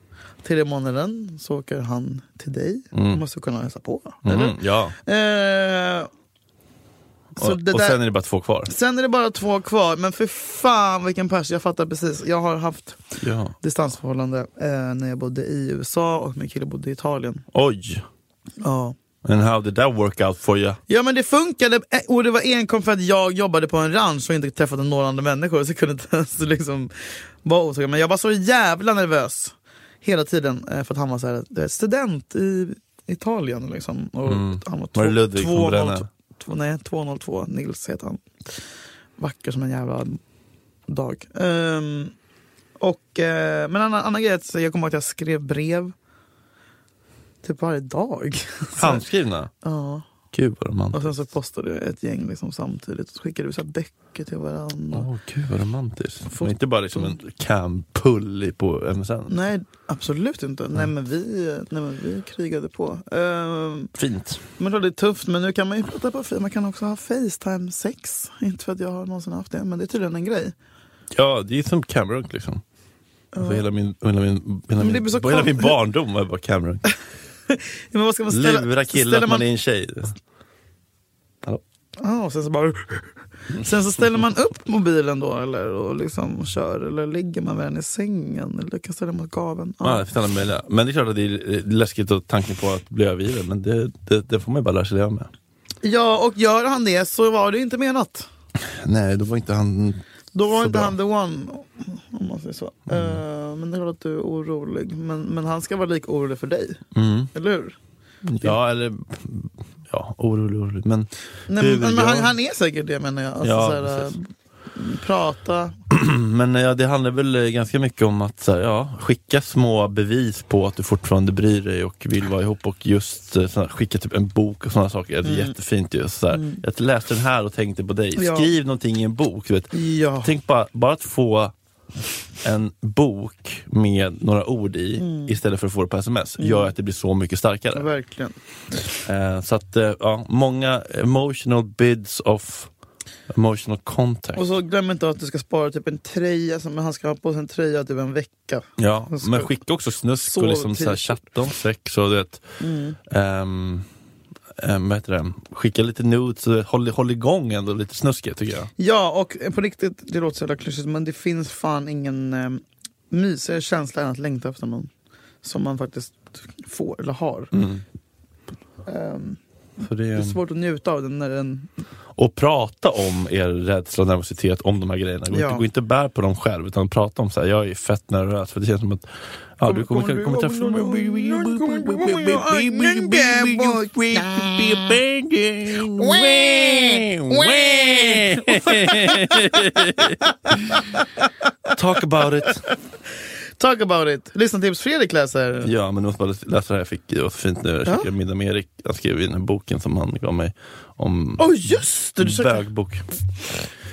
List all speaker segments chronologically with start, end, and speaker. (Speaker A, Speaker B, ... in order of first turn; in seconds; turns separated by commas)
Speaker A: 0.4-6.1, Speaker B: 2.9-3.2, Speaker B: 4.2-5.0, Speaker B: 7.4-8.7, Speaker A: 7.4-8.0, Speaker A: 8.7-17.4, Speaker B: 13.2-13.5, Speaker B: 17.5-18.0, Speaker A: 18.6-19.0, Speaker B: 19.2-20.8, Speaker A: 20.9-38.2, Speaker B: 34.3-36.1, Speaker A: 39.2-40.2, Speaker A: 40.9-42.1, Speaker A: 42.8-45.9, Speaker A: 47.4-49.0, Speaker B: 48.8-49.5, Speaker A: 49.6-50.1, Speaker B: 50.3-51.1, Speaker A: 50.9-55.1, Speaker B: 54.9-59.3, Speaker A: 56.3-57.2, Speaker A: 59.3-63.9, Speaker B: 64.0-64.4, Speaker A: 64.6-70.5, Speaker B: 71.1-72.6, Speaker A: 73.3-73.7, Speaker B: 73.3-76.8, Speaker A: 74.8-75.8, Speaker A: 77.5-79.5, Speaker B: 78.3-80.2, Speaker A: 82.0-90.0, Speaker B: 89.8-95.3, Speaker A: 95.8-98.3, Speaker B: 98.6-101.0, Speaker A: 100.3-107.8, Speaker B: 102.9-103.2, Speaker B: 106.9-107.3, Speaker B: 108.2-112.3, Speaker A: 111.5-115.8, Speaker B: 113.4-114.2, Speaker B: 115.9-131.5, Speaker A: 125.2-125.6, Speaker A: 126.3-126.6, Speaker A: 128.2-128.5, Speaker A: 129.7-130.3, Speaker B: 132.4-137.9, Speaker A: 135.0-135.3, Speaker A: 136.4-136.7, Speaker A: 137.7-138.4, Speaker B: 139.1-142.7, Speaker B: 143.3-144.5, Speaker A: 144.4-149.5, Speaker B: 148.8-152.4, Speaker A: 150.2-151.2, Speaker A: 152.6-153.0, Speaker B: 153.1-153.9, Speaker B: 154.6-158.7, Speaker A: 158.8-164.9, Speaker A: 165.4-167.5, Speaker B: 167.5-167.8, Speaker A: 168.9-169.4, Speaker B: 169.8-170.4, Speaker A: 170.2-171.7, Speaker B: 172.2-191.0, Speaker A: 175.3-175.6, Speaker A: 179.7-185.0, Speaker A: 185.8-191.3, Speaker B: 191.7-192.7, Speaker A: 193.6-195.7, Speaker B: 195.6-201.5, Speaker A: 201.4-202.6, Speaker B: 202.2-203.1